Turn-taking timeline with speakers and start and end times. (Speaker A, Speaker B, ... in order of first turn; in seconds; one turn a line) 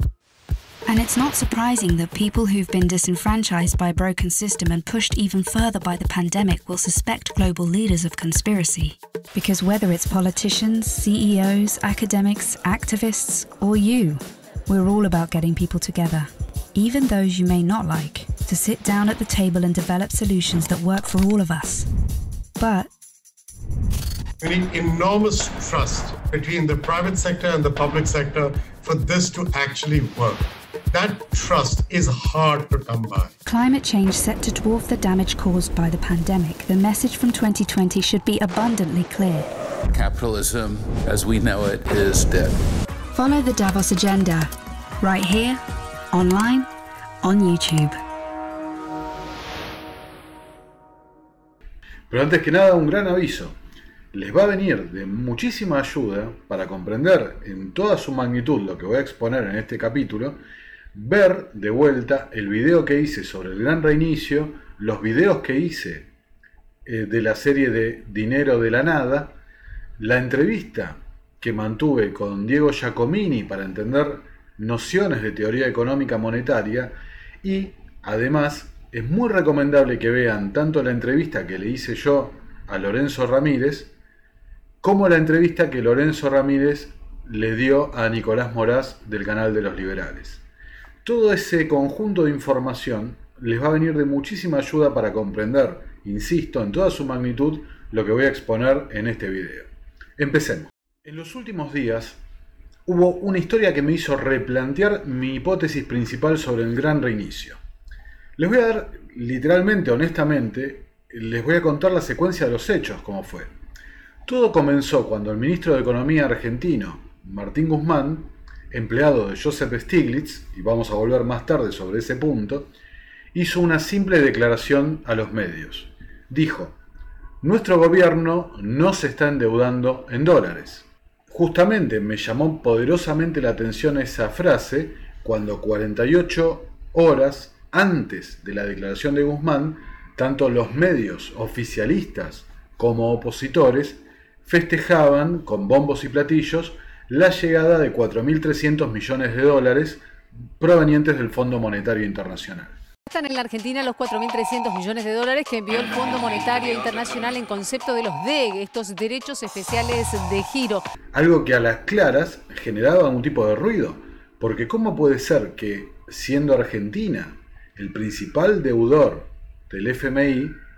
Speaker A: 0.9-21.9
Speaker A: 22.6-22.9
Speaker B: 24.4-33.3
Speaker A: 33.5-39.5
Speaker C: 39.9-42.6
Speaker A: 43.1-44.5
Speaker A: 45.0-46.7
Speaker A: 47.2-48.0
Speaker D: 52.1-53.6
Speaker D: 54.1-60.4
Speaker D: 60.9-66.1
Speaker D: 66.9-69.4
Speaker D: 70.0-83.9
Speaker D: 84.8-90.4
Speaker D: 91.0-102.2
Speaker D: 102.9-107.6
Speaker D: 108.4-113.5
Speaker D: 114.3-122.7
Speaker D: 123.3-126.8
Speaker D: 127.4-150.0
Speaker D: 150.6-152.8
Speaker E: 153.1-160.8
Speaker D: 161.1-170.6